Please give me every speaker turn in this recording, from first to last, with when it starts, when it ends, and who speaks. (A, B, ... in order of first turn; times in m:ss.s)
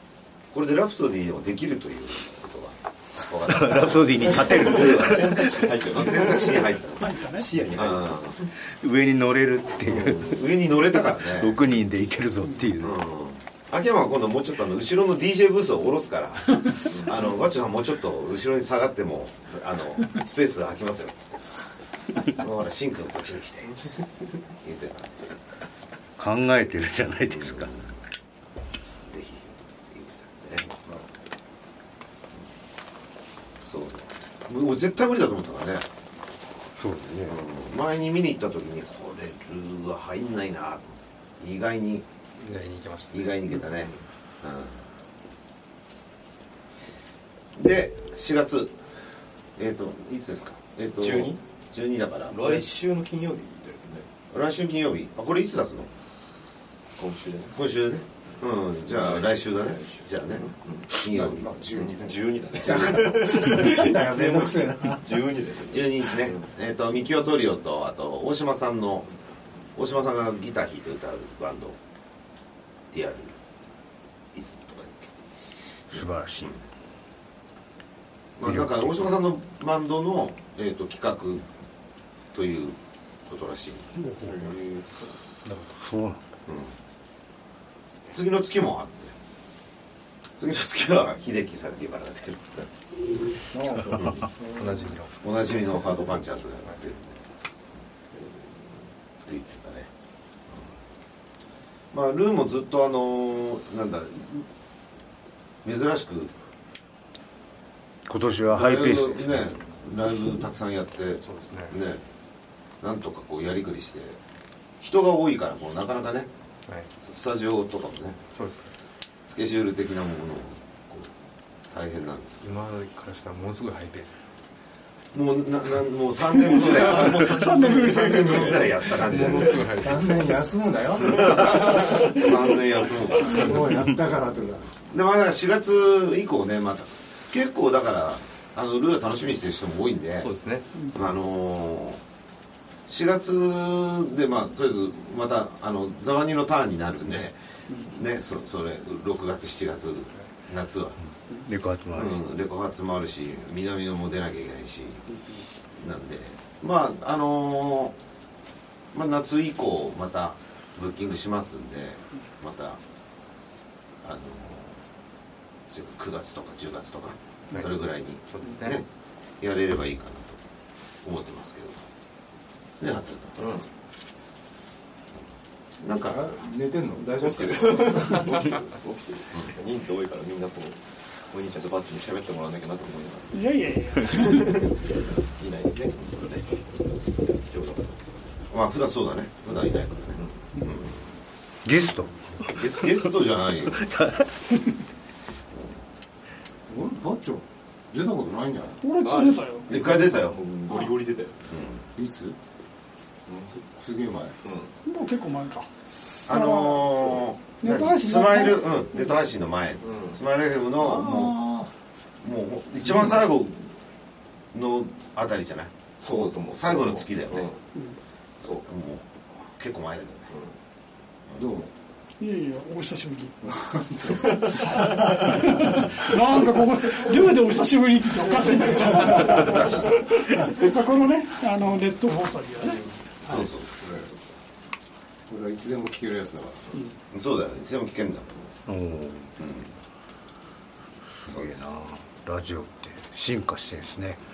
0:00.5-0:05.3 A
0:03.4-0:05.7 B
0:04.4-0:06.7 C
0:05.8-0:08.4 A
0:07.0-0:07.4 D
0:07.2-0:08.4 C
0:08.6-0:10.4 B
0:09.9-0:11.6 A
0:11.1-0:13.0 B
0:12.8-0:21.3 A
0:22.2-0:23.8 A
0:24.6-0:25.2 A
0:26.2-0:27.7 B
0:27.3-0:27.8 A
0:28.8-0:30.7 A
0:33.6-0:35.8 A
0:36.8-0:37.4 B
0:37.3-0:42.0 A
0:42.4-0:43.4 E
0:43.1-0:44.8 A
0:47.5-0:48.8 A
0:49.6-0:52.6 A
0:51.0-0:51.4 C
0:52.3-0:54.1 C
0:54.3-0:55.9 A
0:57.0-0:57.6 C
0:57.5-1:01.5 A
0:58.9-1:00.9 C
1:01.1-1:05.2 F
1:01.8-1:06.5 C
1:05.7-1:09.1 A
1:09.7-1:11.8 A
1:12.9-1:13.3 A
1:14.3-1:15.1 A
1:15.9-1:16.5 B
1:15.9-1:16.6 A
1:18.4-1:21.4 A
1:18.4-1:19.2 B
1:22.3-1:23.9 A
1:24.2-1:25.1 C
1:25.4-1:25.7 E
1:25.8-1:26.2 B
1:26.5-1:26.7 A
1:28.1-1:29.1 A
1:30.4-1:32.7 A
1:33.5-1:35.0 F
1:34.6-1:35.1 E
1:35.2-1:37.2 A
1:38.1-1:38.5 C
1:39.2-1:39.9 A
1:41.9-1:44.4 A
1:45.6-1:46.3 A
1:48.1-1:49.5 B
1:48.5-1:52.0 A
1:51.2-1:51.8 E
1:52.8-1:54.2 A
1:54.8-1:56.3 A
1:57.0-1:58.2 A
1:58.3-1:58.7 E
1:59.3-2:01.1 A
2:01.7-2:02.5 A
2:02.4-2:04.3 E
2:05.1-2:09.7 A
2:06.6-2:08.7 C
2:06.6-2:08.6 D
2:08.4-2:12.1 F
2:08.9-2:10.2 E
2:11.0-2:13.7 A
2:13.3-2:14.7 F
2:14.9-2:20.3 A
2:20.2-2:20.7 E
2:20.9-2:22.0 A
2:22.9-2:31.0 A
2:31.4-2:32.2 B
2:31.9-2:35.0 A
2:35.8-2:37.9 A
2:38.9-2:42.8 A
2:44.0-2:44.8 A
2:45.7-2:48.8 A
2:48.3-2:48.8 E
2:49.4-2:50.4 A
2:51.0-2:51.8 A
2:52.8-2:53.4 A
2:53.4-2:53.6 C
2:55.8-2:56.3 A
2:55.9-2:58.3 F
2:57.2-3:03.4 C
3:03.3-3:04.6 D
3:04.0-3:08.3 C
3:08.5-3:10.9 A
3:10.2-3:10.5 C
3:11.6-3:13.0 B
3:12.4-3:13.9 A
3:13.8-3:14.3 B
3:16.7-3:18.8 F
3:18.8-3:19.7 D
3:19.0-3:21.4 C
3:19.7-3:20.4 A
3:21.5-3:21.8 A
3:22.0-3:22.4 F
3:23.3-3:23.5 C
3:23.6-3:24.4 F
3:24.4-3:24.7 C
3:24.8-3:25.7 D
3:26.2-3:31.4 A
3:26.3-3:29.1 D
3:29.8-3:30.2 C
3:30.8-3:31.7 F
3:32.2-3:33.7 A
3:32.9-3:33.2 F
3:34.5-3:37.5 A
3:36.0-3:37.6 C
3:38.6-3:40.3 A
3:41.4-3:41.7 F
3:42.2-3:43.3 D
3:43.4-3:45.8 F
3:44.5-3:53.3 D
3:48.4-3:49.7 F
3:49.2-3:49.9 A
3:53.2-3:53.7 A
3:53.7-3:54.1 F
3:55.3-3:56.7 F
3:57.1-3:58.5 A
3:58.7-3:59.3 B
3:59.4-3:59.7 A
4:01.2-4:04.2 B
4:01.3-4:01.7 A